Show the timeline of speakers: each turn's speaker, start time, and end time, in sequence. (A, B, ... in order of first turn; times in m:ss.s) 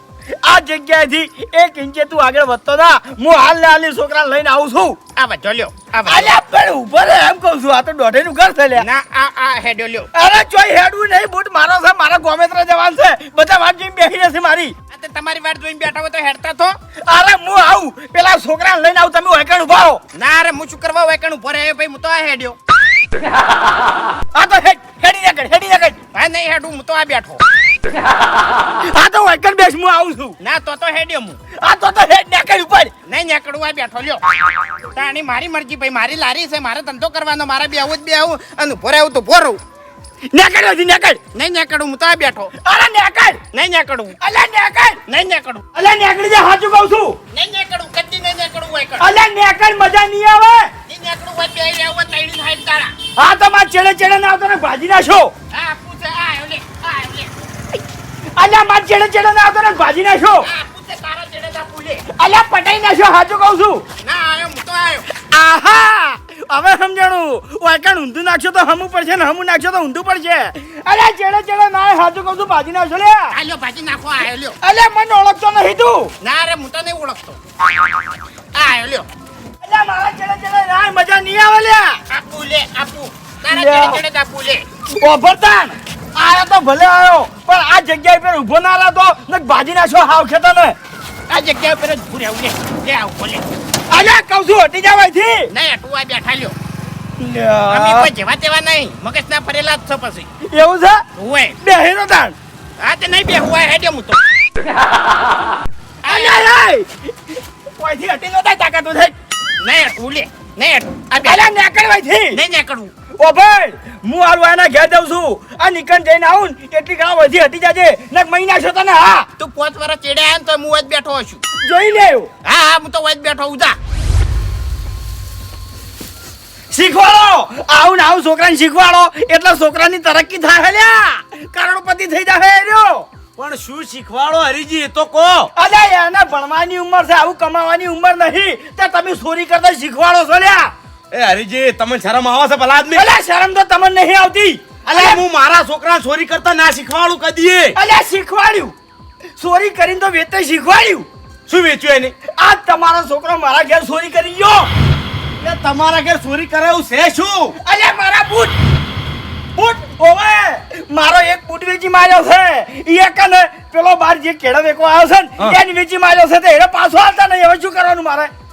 0:00.4-0:05.0 A
0:05.2-0:06.3 B
0:06.0-0:08.8 A
0:08.8-0:10.1 B
0:10.1-0:14.7 A
0:14.9-0:16.7 B
0:17.1-0:20.0 A
0:20.1-0:22.6 B
0:24.3-0:26.0 A
0:26.1-0:27.4 B
0:28.8-0:30.4 A
0:30.4-0:31.4 B
0:31.6-0:32.9 A
0:33.1-0:34.2 B
0:34.9-0:39.6 B
0:40.3-0:41.2 A
0:41.3-0:42.5 B
0:42.6-0:43.4 A
0:43.5-0:44.2 B
0:44.2-0:45.0 A
0:45.1-0:45.6 B
0:45.7-0:47.2 A
0:47.3-0:49.1 B
0:49.0-0:50.7 A
0:50.9-0:52.9 B
0:53.2-0:55.3 A
0:55.5-0:57.3 B
0:58.4-1:00.5 A
1:00.4-1:02.0 B
1:02.1-1:03.8 A
1:04.0-1:05.0 B
1:05.1-1:13.3 A
1:13.3-1:14.6 B
1:14.6-1:16.1 A
1:16.2-1:17.4 B
1:18.5-1:19.1 B
1:19.6-1:22.0 A
1:22.1-1:24.6 B
1:23.5-1:24.0 A
1:24.8-1:30.7 A
1:31.3-1:33.4 B
1:33.9-1:35.5 A
1:35.5-1:36.6 B
1:37.2-1:38.1 A
1:37.7-1:40.3 B
1:40.4-1:41.0 A
1:41.1-1:41.6 B
1:41.6-1:42.3 A
1:42.8-1:44.2 B
1:46.0-1:46.5 B
1:46.0-1:47.0 A
1:47.8-1:49.1 A
1:49.6-1:51.5 B
1:51.2-1:52.4 A
1:52.3-1:52.9 B
1:53.2-1:59.3 A
1:59.4-2:01.4 B
2:01.6-2:02.3 A
2:02.4-2:03.8 B
2:06.7-2:13.0 A
2:13.4-2:15.5 C
2:15.6-2:20.7 A
2:21.1-2:23.0 C
2:22.9-2:25.2 A
2:24.8-2:27.7 C
2:27.7-2:28.7 A
2:29.4-2:31.1 A
2:31.5-2:32.1 C
2:32.3-2:34.7 A
2:35.4-2:37.5 C
2:37.6-2:38.5 A
2:39.6-2:48.3 A